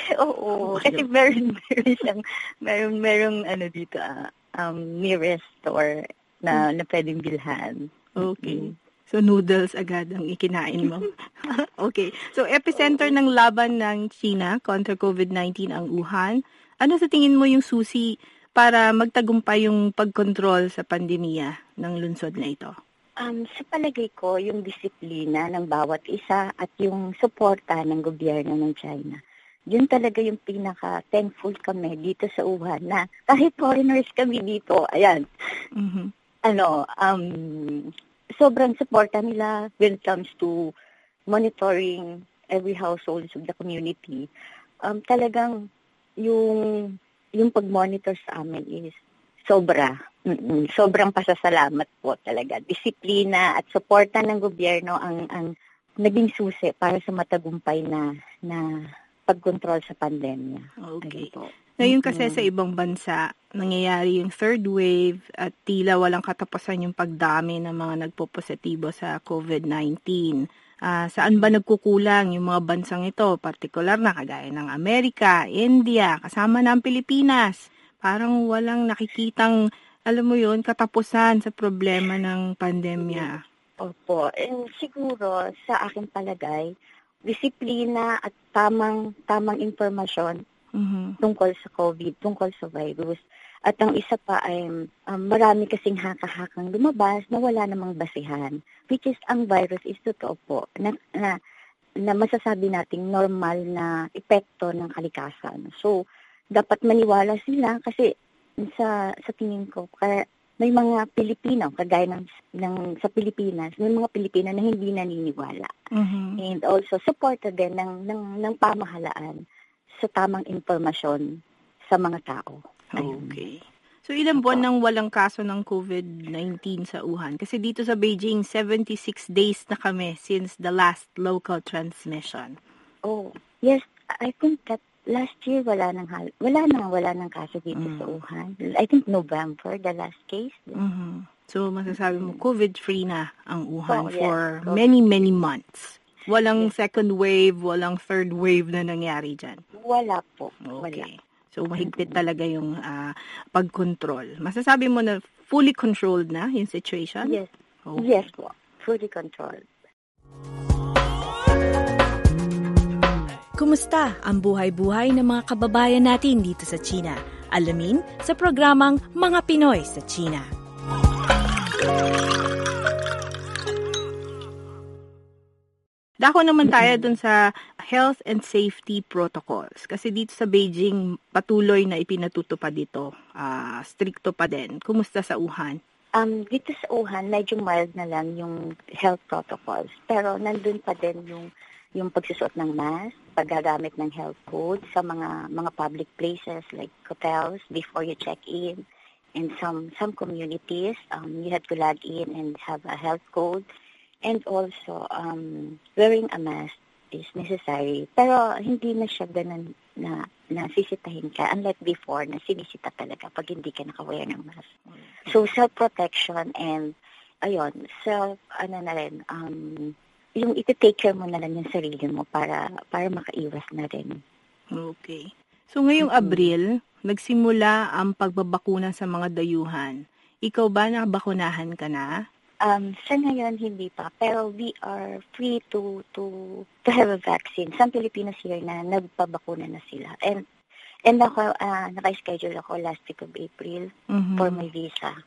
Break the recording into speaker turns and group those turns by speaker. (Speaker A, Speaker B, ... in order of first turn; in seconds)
Speaker A: 0.1-7.9, 8.4-8.7, 23.2-29.2, 29.7-35.2, 36.5-40.5, 41.3-44.2, 44.9-45.5, 46.2-49.0, 49.5-55.5, 56.0-58.6, 59.3-62.4, 83.0-83.3, 83.8-86.7, 87.3-90.4, 91.2-101.3, 102.0-106.0, 106.5-108.1, 108.6-115.7, 116.4-119.4, 120.0-121.2, 121.9-123.4, 124.3-124.6, 133.1-140.8, 141.9-142.4, 143.9-144.8, 149.8-151.1, 151.7-152.2, 157.2-159.6, 186.2-198.8, 199.4-203.7, 204.2-214.7, 215.2-216.9, 217.4-224.1, 226.0-226.5, 232.6-240.4, 241.1-245.1
Speaker B: 0.7-1.0, 8.2-22.7, 35.8-36.1, 60.8-61.3, 61.8-79.5, 80.1-83.4, 90.8-91.1, 115.9-116.4, 123.0-132.5, 137.7-138.2, 140.8-149.6, 150.7-158.2, 176.2-177.3, 177.9-185.8, 224.8-232.1, 244.1-244.6
Speaker C: 163.6-167.0, 167.5-170.4